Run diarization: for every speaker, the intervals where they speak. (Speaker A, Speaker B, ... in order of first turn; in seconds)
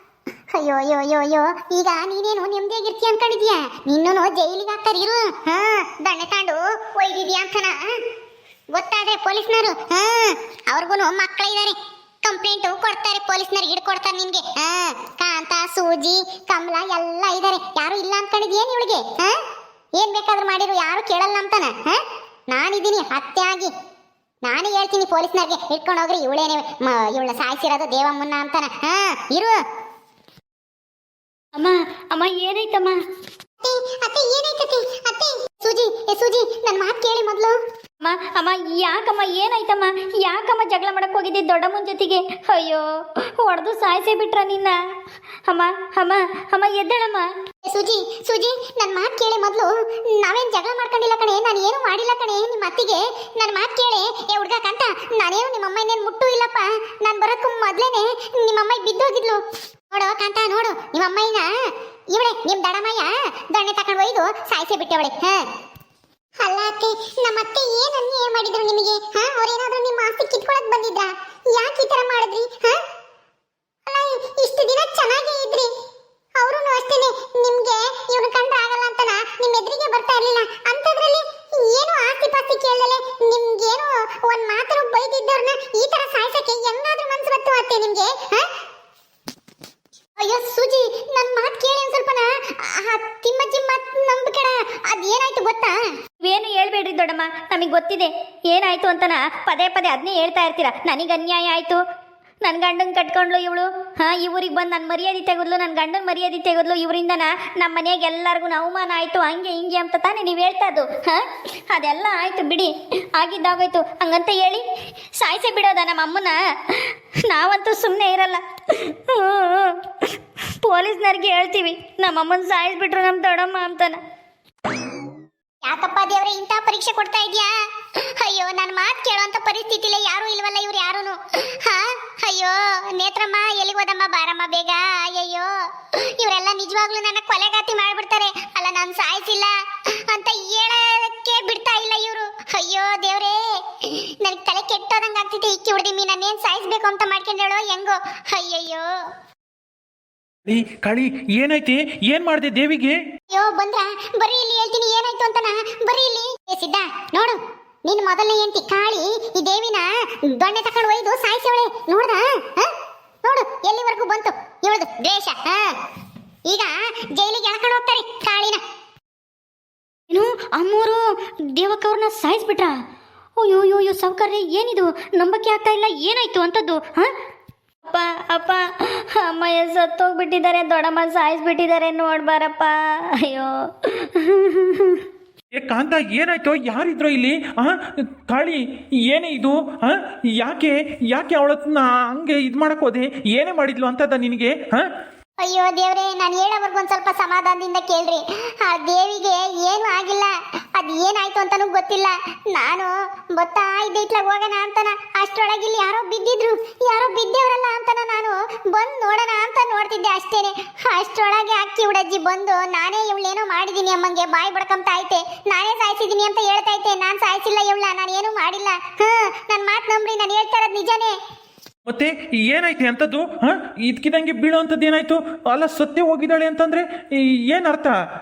Speaker A: 0.5-7.9, 8.7-19.4, 20.0-23.7, 24.4-29.6, 33.6-37.6, 47.6-61.5, 62.1-65.5, 66.4-72.8, 73.9-75.7, 76.4-88.5, 90.2-95.8, 125.6-127.5, 128.1-148.9, 153.3-162.7, 163.2-165.8, 166.5-168.6, 195.4-221.2
Speaker B: 31.6-33.0, 38.0-44.8, 45.5-47.3, 96.2-101.8, 102.4-114.6, 115.2-120.0, 120.6-124.0, 170.1-171.0, 171.5-172.8, 173.4-177.1, 177.8-185.0
Speaker C: 150.5-153.0, 185.5-194.9, 221.9-227.9